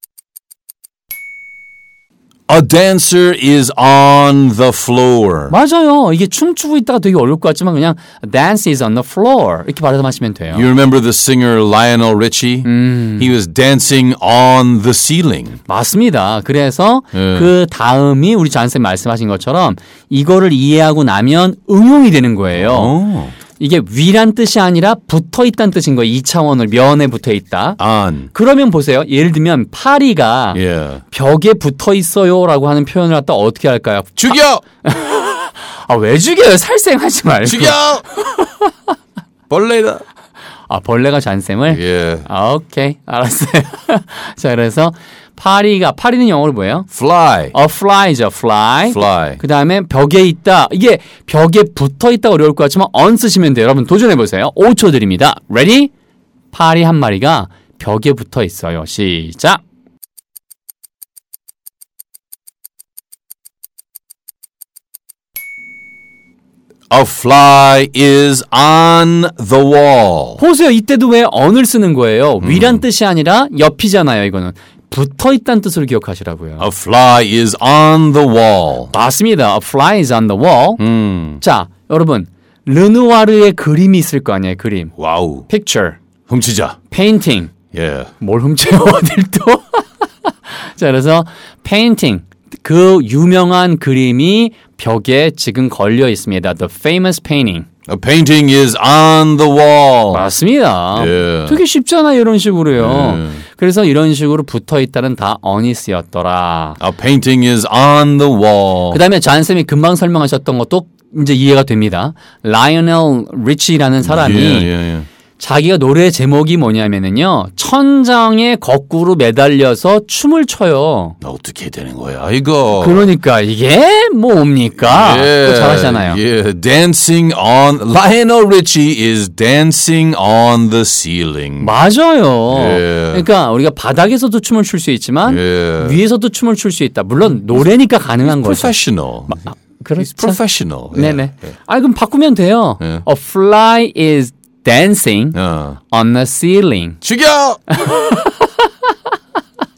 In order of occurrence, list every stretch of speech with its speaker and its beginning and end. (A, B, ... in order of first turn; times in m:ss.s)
0:02.5-0:05.5 A
0:05.5-0:10.6 B
0:10.5-0:15.6 A
0:12.7-0:13.3 B
0:15.7-0:23.0 B
0:17.1-0:17.5 A
0:22.6-0:23.4 A
0:23.6-0:27.8 B
0:27.8-0:28.3 A
0:28.3-0:30.6 B
0:30.5-0:31.0 A
0:31.1-0:38.7 B
0:34.2-0:34.6 A
0:37.4-0:38.0 A
0:39.5-0:40.0 A
0:40.7-0:46.9 B
0:41.7-0:42.3 A
0:46.9-0:47.6 A
0:47.5-0:55.9 B
0:48.9-0:49.4 A
0:56.5-0:59.6 B
1:06.9-1:10.4 A
1:10.4-1:16.6 B
1:12.4-1:12.8 A
1:16.6-1:18.9 A
1:18.9-1:20.8 B
1:20.8-1:21.4 A
1:21.4-1:24.9 B
1:25.0-1:25.5 A
1:25.5-1:26.0 B
1:26.3-1:26.8 A
1:26.9-1:27.5 B
1:27.7-1:28.1 A
1:28.2-1:37.7 B
1:37.9-1:40.2 A
1:40.1-1:46.8 B
1:41.0-1:41.6 A
1:42.8-1:43.4 A
1:46.8-1:49.0 A
1:48.9-1:54.7 B
1:54.0-1:55.1 A
1:55.4-2:01.2 B
2:01.2-2:03.1 A
2:02.8-2:06.2 B
2:04.8-2:11.7 A
2:11.6-2:18.8 B
2:12.5-2:13.3 A
2:15.3-2:16.0 A
2:18.2-2:19.4 A
2:19.3-2:20.4 B
2:20.0-2:21.2 A
2:20.9-2:25.4 B
2:25.3-2:25.8 A
2:25.9-2:27.0 B
2:27.0-2:27.6 A
2:27.7-2:28.7 B